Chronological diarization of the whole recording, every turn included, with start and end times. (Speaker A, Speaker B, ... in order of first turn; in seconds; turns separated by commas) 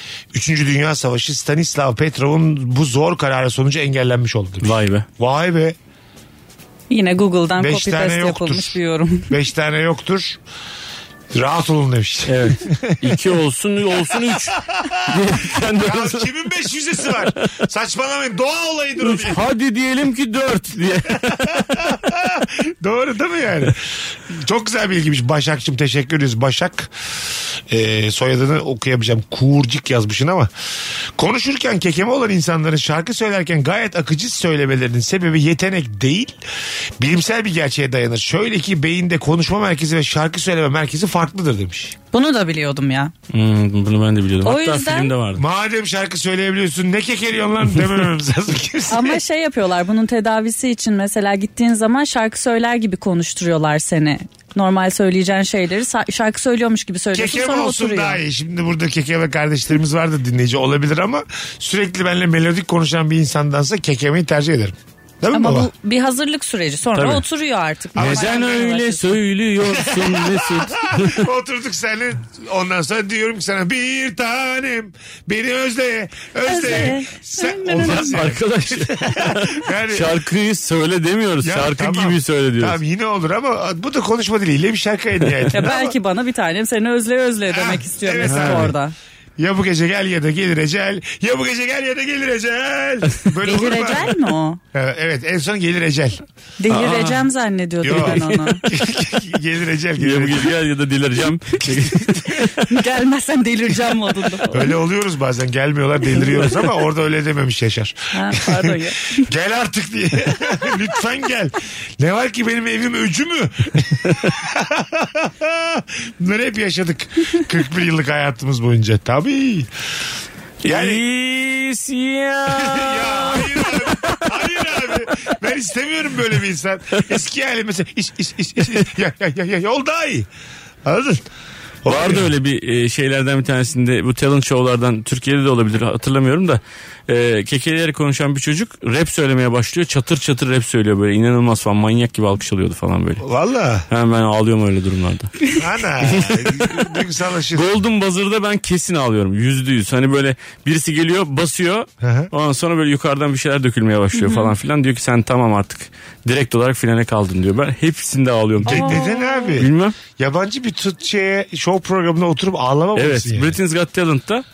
Speaker A: 0.3-5.8, Speaker B: 4.6-5.1, Speaker C: 6.9-9.3, Speaker A: 7.6-8.8, Speaker A: 9.3-10.4, Speaker A: 11.3-13.1, Speaker B: 12.3-16.3, Speaker A: 15.7-19.4, Speaker B: 19.0-21.8, Speaker A: 21.3-26.9, Speaker A: 27.7-30.5, Speaker A: 31.2-36.4, Speaker A: 37.0-42.0, Speaker C: 42.1-43.1, Speaker B: 43.3-45.4, Speaker C: 44.4-45.1, Speaker A: 45.4-49.2, Speaker C: 48.9-58.2, Speaker A: 57.1-65.7, Speaker C: 65.3-69.0, Speaker B: 67.0-67.2, Speaker A: 68.0-68.7, Speaker B: 68.0-71.3, Speaker A: 69.6-80.1, Speaker C: 76.5-78.0, Speaker B: 77.8-82.8, Speaker A: 81.4-86.0, Speaker C: 85.5-88.9, Speaker A: 87.5-88.8, Speaker B: 88.2-88.7, Speaker A: 89.4-94.1, Speaker C: 93.4-94.6, Speaker A: 94.7-96.2, Speaker C: 96.6-98.6, Speaker B: 96.7-97.2, Speaker A: 97.8-100.5, Speaker B: 97.9-98.4, Speaker B: 100.0-102.7, Speaker A: 101.6-102.5, Speaker C: 102.7-104.7, Speaker A: 104.5-119.7, Speaker C: 108.1-109.3, Speaker B: 120.6-124.2, Speaker A: 120.7-121.0, Speaker A: 122.5-130.3, Speaker A: 130.8-131.3, Speaker A: 131.8-132.3, Speaker B: 131.9-143.2, Speaker A: 143.2-143.8, Speaker B: 143.9-145.5, Speaker A: 145.6-147.7, Speaker B: 146.0-146.9, Speaker B: 147.5-159.0, Speaker A: 152.0-152.3, Speaker C: 154.2-154.5, Speaker A: 158.6-163.6, Speaker C: 158.7-159.6, Speaker B: 159.6-160.0, Speaker B: 163.0-164.4